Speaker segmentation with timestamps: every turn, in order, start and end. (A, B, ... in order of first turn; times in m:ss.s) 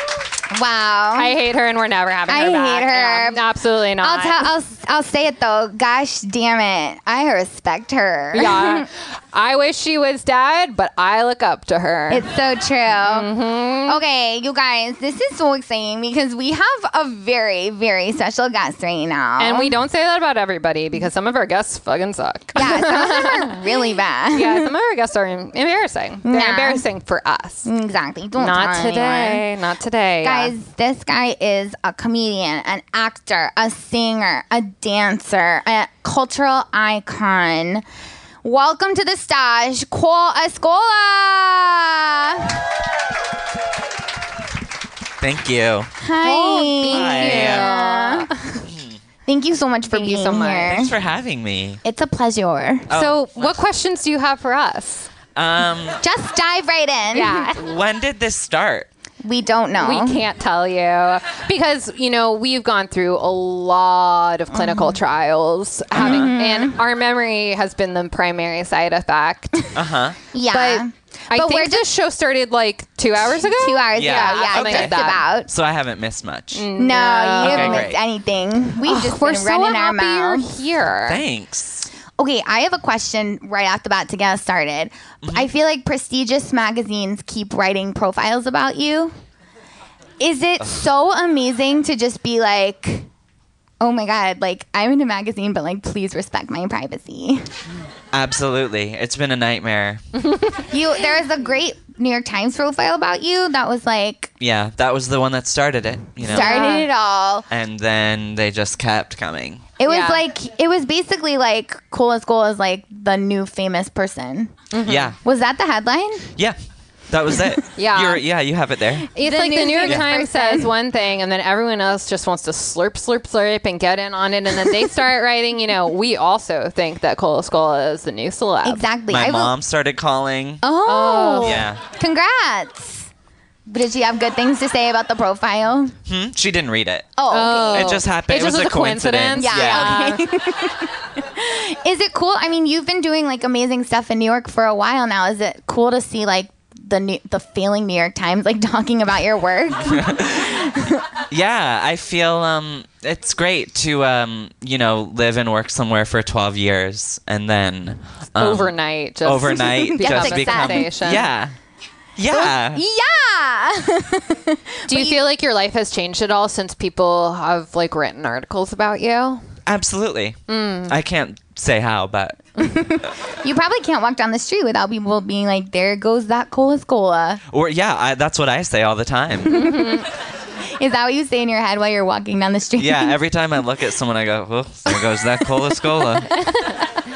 0:00.5-0:01.3 A
0:01.1-0:04.5 B
0:02.3-0:03.4 A
0:04.0-0:08.9 A
0:08.3-0:12.3 B
0:12.1-0:13.3 A
0:12.9-0:14.0 B
0:13.9-0:19.7 A
0:19.4-0:23.7 B
0:22.6-0:24.7 A
0:24.3-0:27.7 B
0:26.2-0:26.8 A
0:27.6-0:29.4 A
0:28.4-0:30.5 B
0:30.2-0:37.8 A
0:38.4-0:42.6 A
0:45.2-0:45.9 C
0:46.0-0:48.4 A
0:46.2-0:48.4 B
0:46.9-0:47.7 C
0:48.7-0:49.0 C
0:49.2-0:50.9 A
0:49.9-0:50.8 B
0:50.6-0:51.8 C
0:51.8-0:52.9 A
0:52.9-0:53.6 C
0:52.9-0:55.1 B
0:55.4-0:56.0 C
0:56.0-0:57.5 A
0:57.1-0:57.6 B
0:57.5-0:58.9 C
0:59.2-1:00.2 A
0:59.8-1:09.7 B
1:04.5-1:05.0 A
1:05.9-1:06.8 A
1:09.7-1:10.2 C
1:10.3-1:11.9 A
1:10.5-1:15.2 B
1:13.3-1:15.5 A
1:14.0-1:16.6 C
1:16.5-1:17.9 B
1:16.8-1:20.5 A
1:17.4-1:18.0 C
1:18.8-1:21.2 B
1:21.1-1:21.9 C
1:22.2-1:29.1 A
1:25.2-1:25.5 C
1:30.2-1:33.1 A
1:33.8-1:37.5 A
1:38.1-1:40.0 C
1:40.7-1:44.3 A
1:44.4-1:46.6 C
1:46.2-1:46.9 B
1:46.3-1:47.5 A
1:47.5-1:49.6 C
1:49.8-1:54.5 A
1:49.9-1:50.2 B
1:54.7-1:55.1 B
1:54.8-1:55.2 C
1:55.2-1:56.3 A
1:57.1-1:59.1 C
1:57.8-1:58.2 B
1:59.1-2:08.8 B
1:59.2-2:00.7 A
2:08.6-2:09.5 A
2:09.1-2:10.6 C
2:10.6-2:13.1 A
2:10.8-2:11.6 B
2:11.4-2:11.8 C
2:13.7-2:15.9 A
2:16.1-2:17.1 C
2:17.2-2:18.0 A
2:17.3-2:20.2 B
2:17.7-2:20.0 C
2:19.4-2:31.0 A
2:29.8-2:30.6 C
2:31.3-2:41.5 C
2:38.4-2:41.3 B
2:39.5-2:40.9 A
2:42.2-2:42.8 C
2:42.3-2:45.2 A
2:44.9-2:49.4 B
2:49.6-2:52.4 C
2:50.5-2:50.9 B
2:52.6-2:57.4 A
2:57.5-2:59.8 C
2:59.5-3:00.1 A
2:59.5-3:00.1 B
3:00.8-3:03.2 A
3:02.8-3:06.4 C